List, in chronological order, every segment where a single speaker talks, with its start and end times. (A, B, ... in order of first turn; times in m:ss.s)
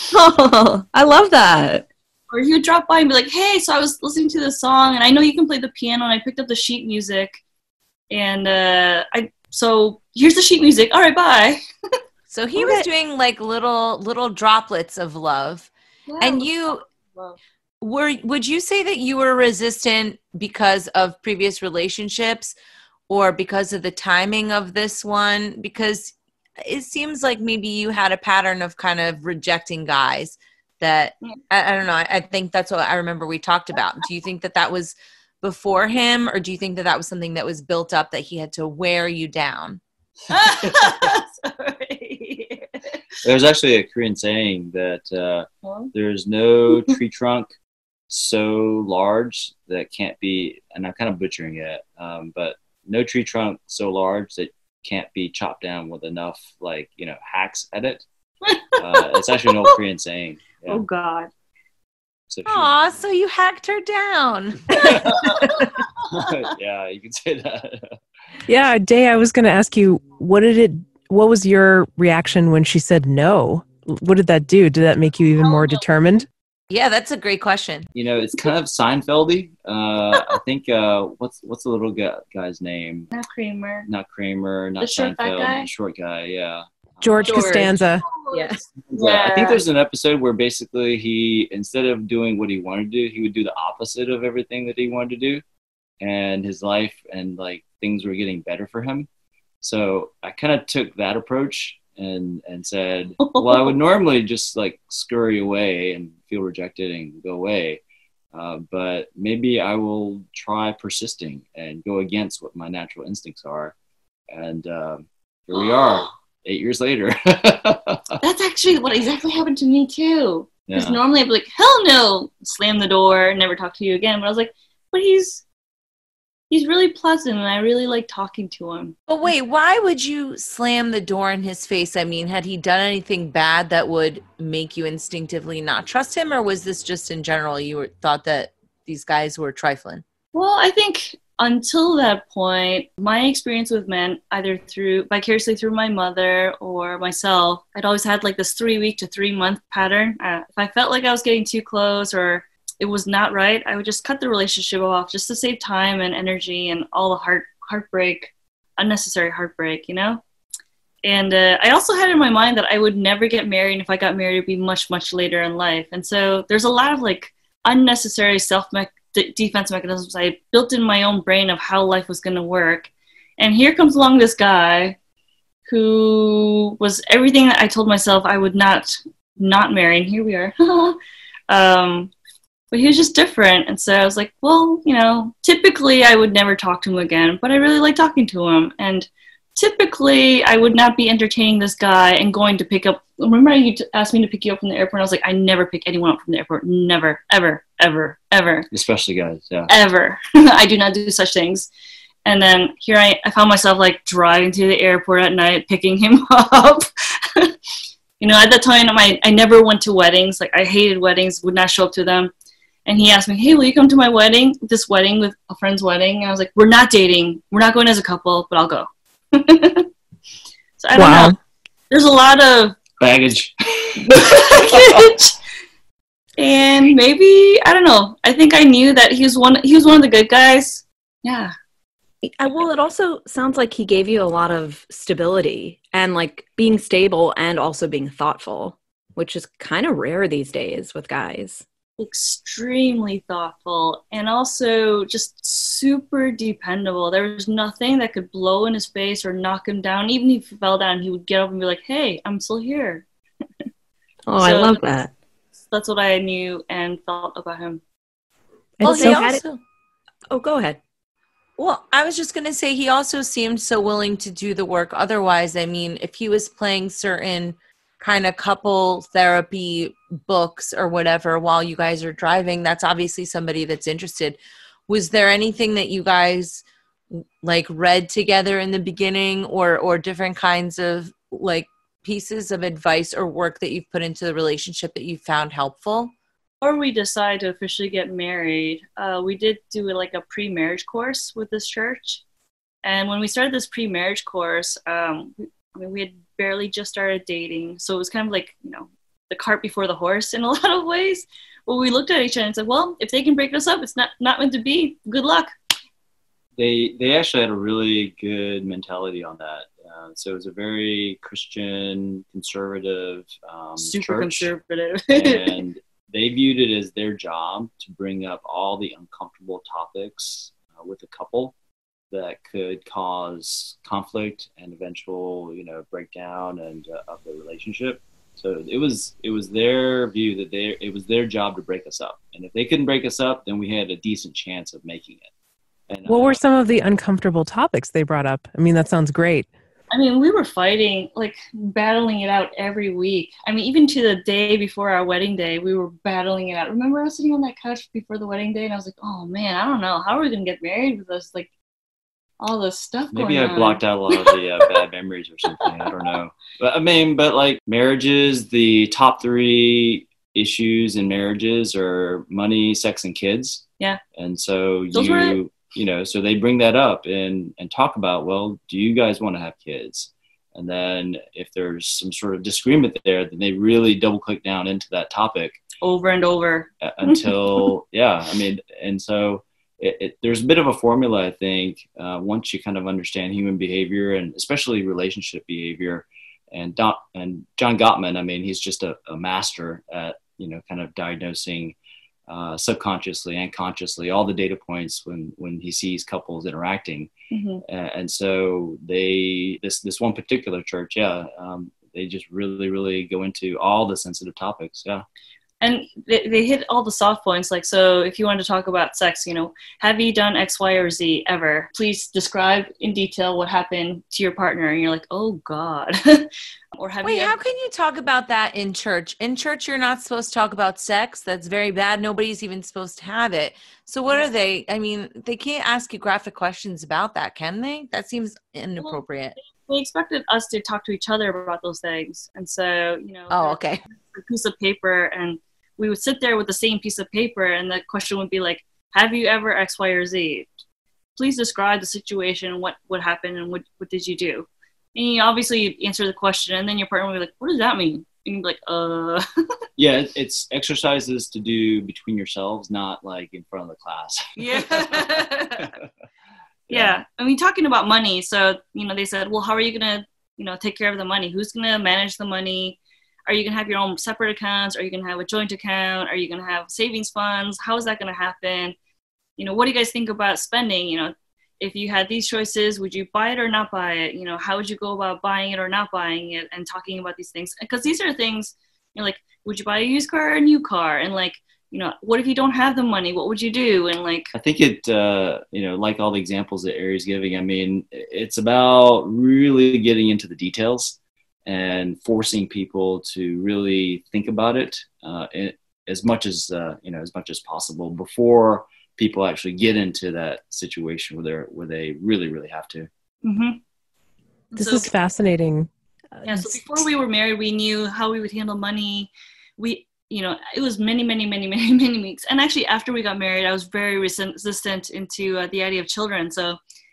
0:00.1-0:01.8 A
0:02.3-0:07.4 B
0:08.1-0:11.6 B
0:12.3-0:16.8 C
0:12.6-0:12.8 B
0:16.1-0:16.5 B
0:17.8-0:22.5 C
0:23.1-0:39.8 C
0:40.3-0:43.0 B
0:43.2-0:47.5 D
0:45.6-0:45.9 B
0:48.1-0:58.0 D
0:58.4-0:59.8 B
0:58.8-1:00.8 D
1:00.7-1:01.3 B
1:02.3-1:02.7 D
1:02.4-1:04.8 C
1:04.7-1:07.8 D
1:04.8-1:06.3 B
1:08.5-1:16.3 E
1:15.4-1:15.9 B
1:16.7-1:17.9 C
1:17.9-1:23.1 D
1:23.1-1:23.9 B
1:23.8-1:27.6 D
1:24.8-1:25.7 B
1:27.0-1:28.0 E
1:27.2-1:29.6 B
1:27.3-1:27.6 A
1:28.3-1:28.6 A
1:28.8-1:35.4 D
1:36.0-1:39.1 D
1:39.6-1:47.8 D
1:48.3-1:53.7 D
1:54.3-1:58.2 D
1:55.5-1:56.1 B
1:58.2-2:05.4 B
2:00.7-2:01.0 D
2:06.5-2:09.0 B
2:09.1-2:20.0 C
2:20.3-2:40.2 B
2:41.0-2:55.0 B
2:55.7-3:01.0 B
3:01.5-3:02.1 B
3:02.7-3:18.7 B
3:18.7-3:19.7 D
3:19.7-3:21.7 B
3:22.2-3:27.5 B
3:28.2-3:32.3 B
3:32.8-3:39.9 B
3:40.8-3:41.3 B
3:41.0-3:41.3 E
3:41.0-3:41.3 A
3:41.9-3:42.8 B
3:43.0-3:45.1 D
3:44.1-3:45.3 B
3:46.4-3:51.5 B
3:52.3-4:01.6 A
4:02.0-4:13.0 B
4:14.3-4:15.1 A
4:14.4-4:14.8 B
4:15.7-4:17.8 B
4:18.8-4:19.4 E
4:18.8-4:19.6 C
4:18.8-4:19.4 A
4:20.3-4:20.8 A
4:21.6-4:46.1 C
4:46.6-4:52.2 B
4:52.8-5:05.5 B
5:06.6-5:14.5 D
5:13.8-5:15.6 B
5:15.1-5:21.5 D
5:22.1-5:35.3 D
5:35.9-5:36.4 D
5:36.1-5:39.5 E
5:39.9-5:51.5 B
5:52.4-5:54.7 B
5:53.1-6:15.6 D
5:55.5-5:56.1 B
6:04.9-6:05.4 B
6:15.8-6:17.7 B
6:16.8-6:31.8 D
6:32.3-6:37.1 D
6:37.3-6:37.6 B
6:37.6-6:45.0 D
6:45.6-6:57.4 B
6:57.0-7:09.4 C
7:08.8-7:20.5 B
7:13.3-7:13.8 C
7:21.2-7:29.2 B
7:29.8-7:35.9 D
7:34.4-7:35.7 B
7:36.7-7:37.0 D
7:36.7-7:48.7 B
7:49.4-8:04.3 B
8:04.3-8:22.9 D
8:23.2-8:23.6 B
8:24.5-8:24.9 B
8:24.6-8:26.6 E
8:26.3-8:36.6 B